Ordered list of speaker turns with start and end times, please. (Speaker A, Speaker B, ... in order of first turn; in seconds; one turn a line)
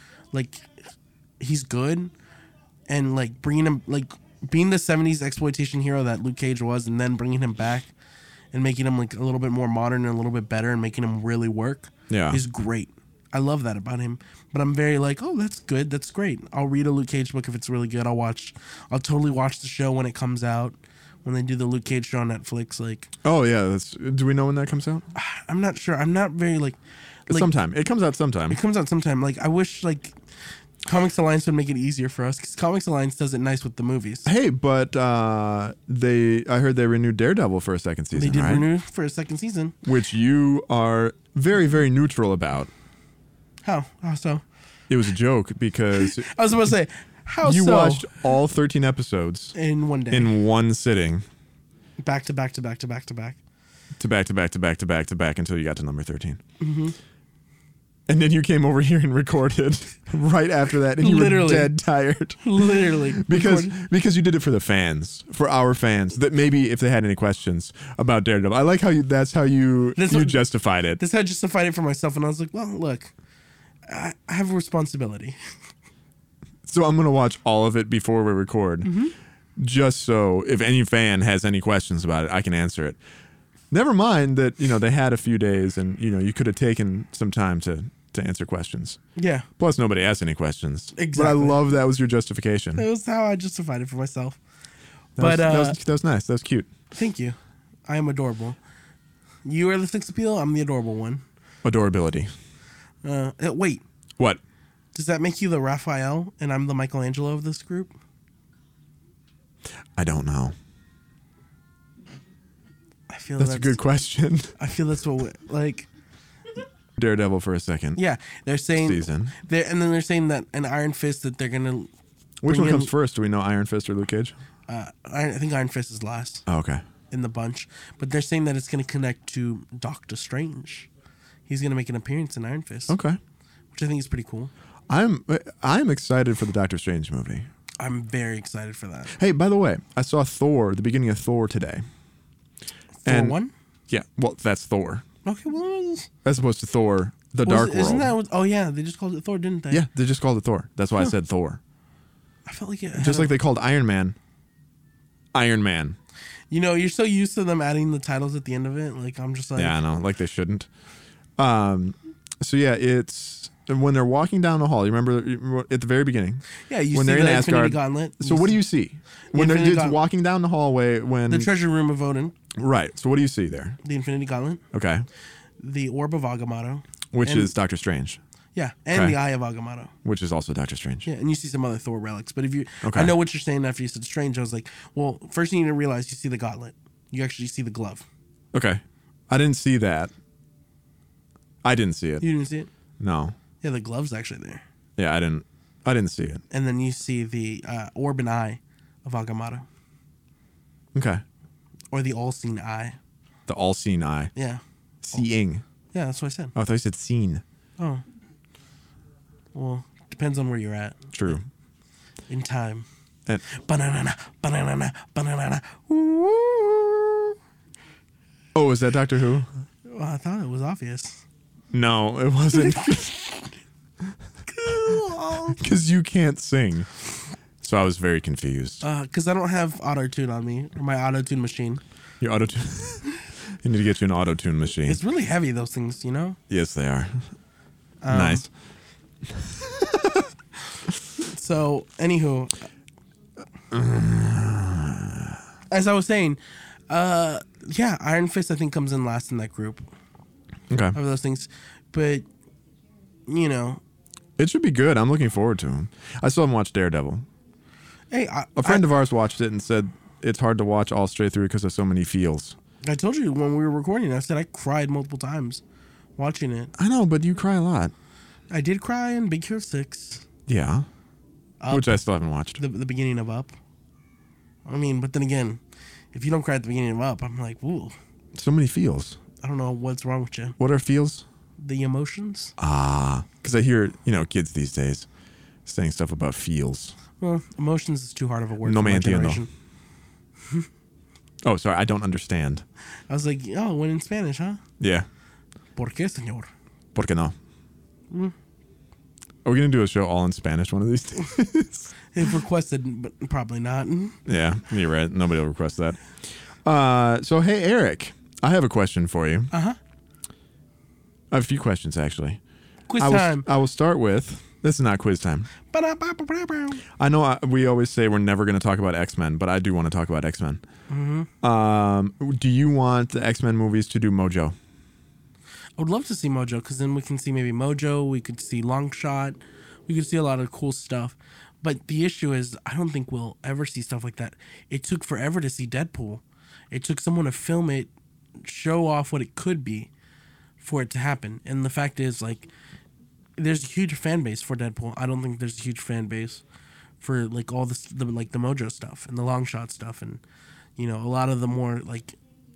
Speaker A: 0.3-0.7
Speaker A: 1.4-2.1
Speaker A: 2.9-7.9
Speaker A: 8.5-23.1
Speaker B: 12.1-12.4
Speaker B: 23.2-25.1
Speaker A: 25.1-27.5
Speaker B: 27.3-28.6
Speaker A: 28.5-30.1
Speaker A: 30.8-34.3
Speaker B: 34.2-38.6
Speaker A: 38.1-39.7
Speaker B: 39.8-42.7
Speaker A: 43.6-44.4
Speaker B: 44.9-46.3
Speaker A: 46.0-48.1
Speaker B: 47.4-49.5
Speaker A: 49.5-50.4
Speaker B: 50.1-51.2
Speaker A: 52.0-53.4
Speaker B: 54.0-56.4
Speaker A: 56.6-57.0
Speaker B: 58.1-71.0
Speaker A: 61.0-61.8
Speaker A: 62.4-63.7
Speaker A: 70.0-73.1
Speaker A: 73.9-75.4
Speaker B: 76.7-78.9
Speaker A: 78.8-79.1
Speaker B: 79.6-83.0
Speaker B: 83.7-89.0
Speaker A: 89.2-89.5
Speaker B: 89.6-92.8
Speaker A: 90.9-91.6
Speaker A: 92.8-94.4
Speaker B: 95.2-96.7
Speaker A: 95.2-95.8
Speaker A: 96.9-98.6
Speaker A: 99.4-101.2
Speaker B: 101.6-102.3
Speaker A: 103.0-103.8
Speaker A: 104.9-107.9
Speaker B: 110.0-110.5
Speaker A: 113.1-113.8
Speaker B: 113.4-114.5
Speaker A: 114.6-115.9
Speaker B: 117.0-118.0
Speaker A: 118.0-121.9
Speaker B: 118.8-119.3
Speaker B: 122.4-124.3
Speaker A: 122.5-122.9
Speaker A: 124.7-126.4
Speaker B: 126.5-126.8
Speaker A: 127.1-130.9
Speaker A: 131.5-133.0
Speaker B: 132.9-133.2
Speaker A: 133.7-134.5
Speaker B: 134.9-137.5
Speaker A: 137.8-139.1
Speaker B: 139.2-141.8
Speaker A: 143.0-143.5
Speaker B: 143.1-143.4
Speaker B: 143.9-145.0
Speaker A: 145.2-146.1
Speaker B: 146.2-148.1
Speaker A: 147.4-149.8
Speaker B: 149.7-151.6
Speaker A: 152.4-153.3
Speaker B: 153.0-154.2
Speaker B: 155.3-156.0
Speaker A: 156.5-159.8
Speaker B: 159.6-160.7
Speaker B: 161.4-171.5
Speaker A: 166.7-168.6
Speaker A: 169.3-170.0
Speaker A: 171.3-172.3
Speaker B: 172.5-173.8
Speaker A: 173.8-174.6
Speaker B: 174.7-175.1
Speaker A: 175.6-177.5
Speaker B: 177.1-178.2
Speaker A: 178.5-179.9
Speaker B: 178.9-179.2
Speaker B: 180.0-181.1
Speaker A: 181.0-188.0
Speaker B: 182.8-183.1
Speaker B: 188.5-190.1
Speaker B: 191.6-192.2
Speaker A: 192.2-192.7
Speaker B: 193.0-193.3
Speaker A: 193.6-194.6
Speaker B: 195.0-196.4
Speaker A: 196.5-199.7
Speaker B: 200.9-201.2
Speaker A: 201.9-203.0
Speaker B: 203.5-204.3
Speaker A: 204.3-204.6
Speaker B: 205.0-205.6
Speaker A: 205.9-206.5
Speaker B: 206.5-207.4
Speaker A: 207.8-208.0
Speaker A: 209.5-211.3
Speaker B: 211.1-211.4
Speaker A: 212.3-212.8
Speaker A: 213.5-217.3
Speaker B: 218.5-219.5
Speaker A: 219.9-221.2
Speaker B: 221.7-223.3
Speaker A: 222.6-223.1
Speaker A: 224.5-225.6
Speaker B: 225.6-226.9
Speaker B: 227.6-228.8
Speaker A: 228.8-231.8
Speaker B: 232.2-233.1
Speaker B: 233.6-235.0
Speaker A: 234.8-236.4
Speaker B: 236.5-237.2
Speaker A: 238.0-238.5
Speaker B: 238.1-238.5
Speaker B: 239.4-240.3
Speaker A: 241.2-242.5
Speaker B: 243.7-245.4
Speaker A: 245.7-249.8
Speaker B: 250.7-251.0
Speaker A: 250.9-252.2
Speaker A: 253.3-253.8
Speaker B: 254.4-257.2
Speaker A: 258.1-258.9
Speaker B: 258.6-262.6
Speaker A: 262.8-265.6
Speaker A: 266.2-266.7
Speaker B: 266.8-267.9
Speaker A: 268.5-270.2
Speaker B: 270.5-270.9
Speaker A: 271.6-272.0
Speaker B: 271.7-272.6
Speaker A: 272.6-273.5
Speaker A: 274.6-275.6
Speaker A: 276.1-277.9
Speaker B: 278.3-279.2
Speaker A: 279.4-280.6
Speaker B: 280.6-281.2
Speaker A: 281.6-282.5
Speaker B: 282.6-285.1
Speaker B: 285.6-286.9
Speaker A: 287.2-289.5
Speaker B: 288.6-289.4
Speaker B: 291.4-292.6
Speaker A: 293.1-294.6
Speaker B: 294.8-295.1
Speaker A: 295.8-296.5
Speaker B: 296.9-297.3
Speaker A: 298.1-298.3
Speaker B: 299.4-301.9
Speaker A: 302.1-304.2
Speaker B: 304.2-306.0
Speaker B: 306.6-309.5
Speaker A: 309.5-309.8
Speaker B: 311.3-312.4
Speaker A: 312.9-313.4
Speaker B: 313.0-315.5
Speaker A: 315.7-316.8
Speaker B: 317.0-320.6
Speaker A: 320.9-321.3
Speaker B: 321.4-324.5
Speaker A: 325.8-339.9
Speaker A: 340.6-342.5
Speaker A: 343.4-346.4
Speaker A: 347.0-350.2
Speaker A: 350.8-352.2